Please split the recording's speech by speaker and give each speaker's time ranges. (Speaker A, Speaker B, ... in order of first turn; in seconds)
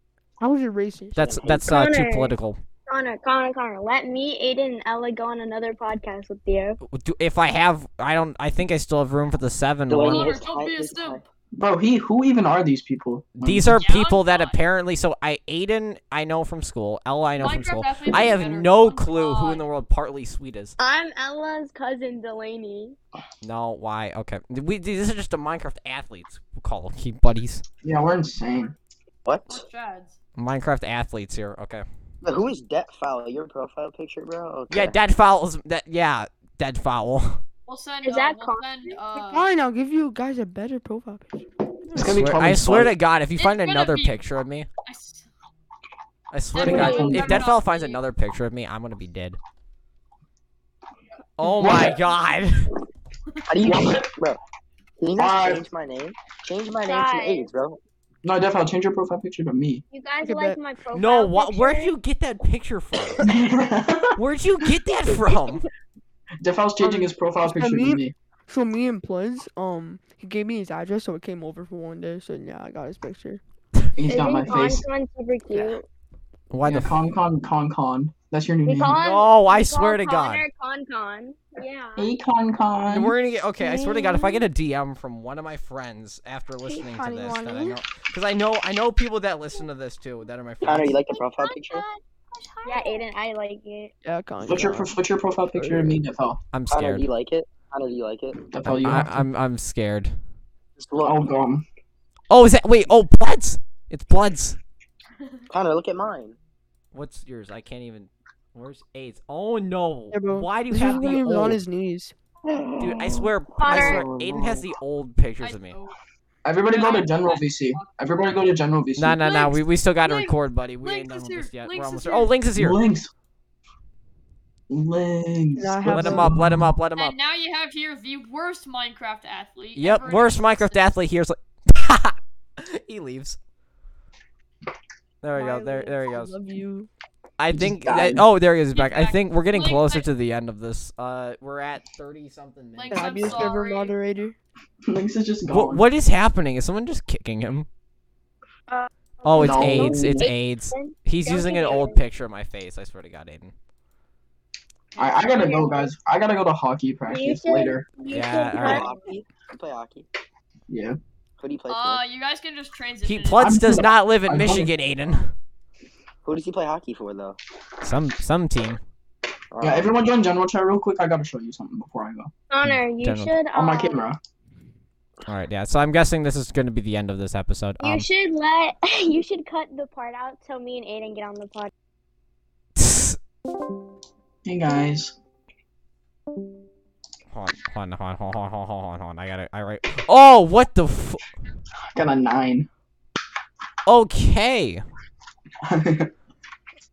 Speaker A: 0.4-1.4, 39.1-41.4, 60.2-60.6, 66.8-73.4, 83.6-84.5, 86.6-87.7, 92.6-93.0, 94.0-94.9, 95.5-96.0, 110.1-112.1, 125.6-126.3, 135.3-136.9, 142.9-144.3
Speaker B: 1.1-2.6, 6.8-10.3, 13.4-20.8, 23.4-27.6, 30.4-31.8, 34.7-37.4, 41.9-44.7, 46.3-49.4, 51.4-52.7, 60.9-63.2, 64.2-65.7, 76.5-77.0, 78.9-80.4, 82.9-91.0, 96.5-97.1, 98.6-100.2, 102.3-104.6, 106.9-111.6, 112.8-115.8, 119.0-122.8, 125.9-127.2, 129.8-133.4, 135.2-136.3, 137.4-143.5, 145.5-147.7, 149.2-153.5, 158.1-158.8, 163.0-165.3, 167.8-168.8, 172.6-173.3, 175.3-178.1, 182.8-183.2, 187.3-191.2, 193.8-194.8
Speaker C: 1.4-2.3, 2.9-6.8, 20.8-22.9, 38.0-39.0, 56.8-57.5, 59.9-62.0, 74.0-75.8, 78.6-82.1, 91.1-93.9, 113.6-114.1, 148.7-152.0, 155.0-155.9, 157.1-159.2, 172.5-174.1, 177.8-181.7
Speaker D: 9.9-11.2, 29.2-29.6, 32.2-35.0, 53.5-54.4, 55.0-57.8, 90.6-91.8, 96.7-98.4, 100.8-101.2, 105.5-106.4, 112.5-114.7, 158.5-160.1, 161.4-162.0, 166.2-167.4, 169.5-169.9
Speaker E: 10.1-11.2, 13.8-14.6, 17.4-19.6, 29.5-30.2, 37.7-39.5, 43.4-44.2, 44.8-45.3, 46.5-48.0, 115.4-115.9, 116.7-118.2, 119.2-122.3, 127.0-130.8, 138.7-140.1, 142.7-143.9, 161.7-163.6
Speaker F: 11.5-13.8, 27.8-28.7, 41.9-42.9, 46.6-47.4, 51.6-51.9, 53.6-54.1, 55.1-55.6, 58.2-59.8, 63.2-64.2, 66.4-68.1, 74.0-74.8, 76.6-79.0, 82.0-83.1, 94.4-96.4, 98.5-99.2, 101.0-101.6, 116.4-119.3, 122.5-123.1, 124.7-126.7, 137.5-138.2, 144.8-145.8, 149.3-150.2, 155.0-157.9, 160.7-161.0, 163.4-164.7, 169.6-172.3, 173.5-174.2, 184.4-185.1, 191.9-192.7, 195.6-196.1